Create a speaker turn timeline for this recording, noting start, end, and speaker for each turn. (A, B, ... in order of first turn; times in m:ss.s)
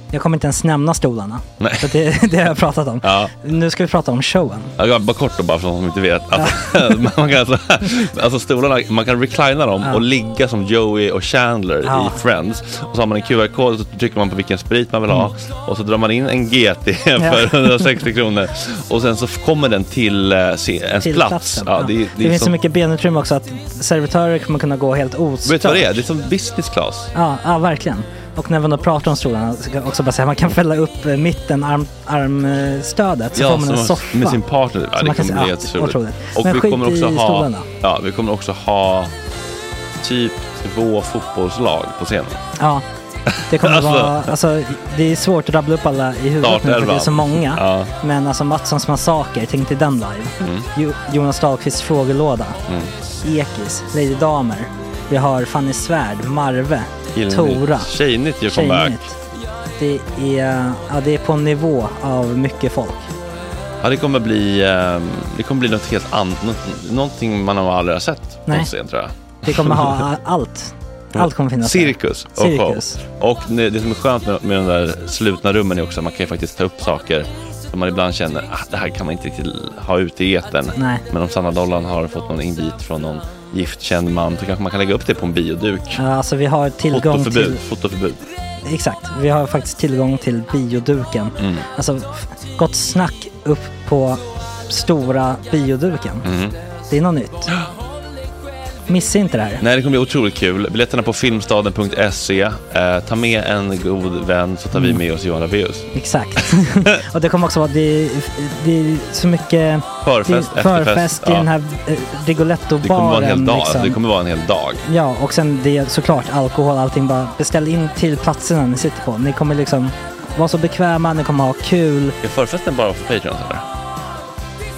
0:00.1-0:04.7 A
0:01.6-0:02.0 B
0:03.0-0:03.3 B
0:04.8-0:22.5 B
0:06.4-0:07.0 A
0:11.8-0:12.2 A
0:17.2-0:17.8 A
0:21.0-0:26.0 A
0:25.4-0:27.1 B
0:27.1-0:34.4 A
0:33.3-0:39.1 B
0:34.9-0:37.7 A
0:40.0-0:42.4 B
0:42.6-0:42.8 A
0:43.3-0:44.3 B
0:43.4-0:52.6 A
0:46.4-0:47.9 B
0:50.4-0:50.7 B
0:52.7-0:52.9 B
0:53.2-0:58.0 A
0:57.1-0:59.0 B
0:58.5-0:59.2 A
0:59.8-1:03.1 A
1:03.8-1:10.1 B
1:08.5-1:08.7 A
1:09.4-1:13.0 A
1:11.1-1:26.0 B
1:20.8-1:21.0 A
1:25.9-1:27.6 A
1:26.9-1:28.2 B
1:28.6-1:36.3 A
1:31.4-1:31.6 B
1:36.2-1:36.6 B
1:36.9-1:37.5 A
1:38.9-1:39.6 A
1:39.6-1:45.9 B
1:44.7-1:45.0 A
1:45.9-1:54.0 A
1:50.0-1:51.5 B
1:52.8-1:54.8 B
1:54.8-2:02.2 A
2:02.2-2:03.6 B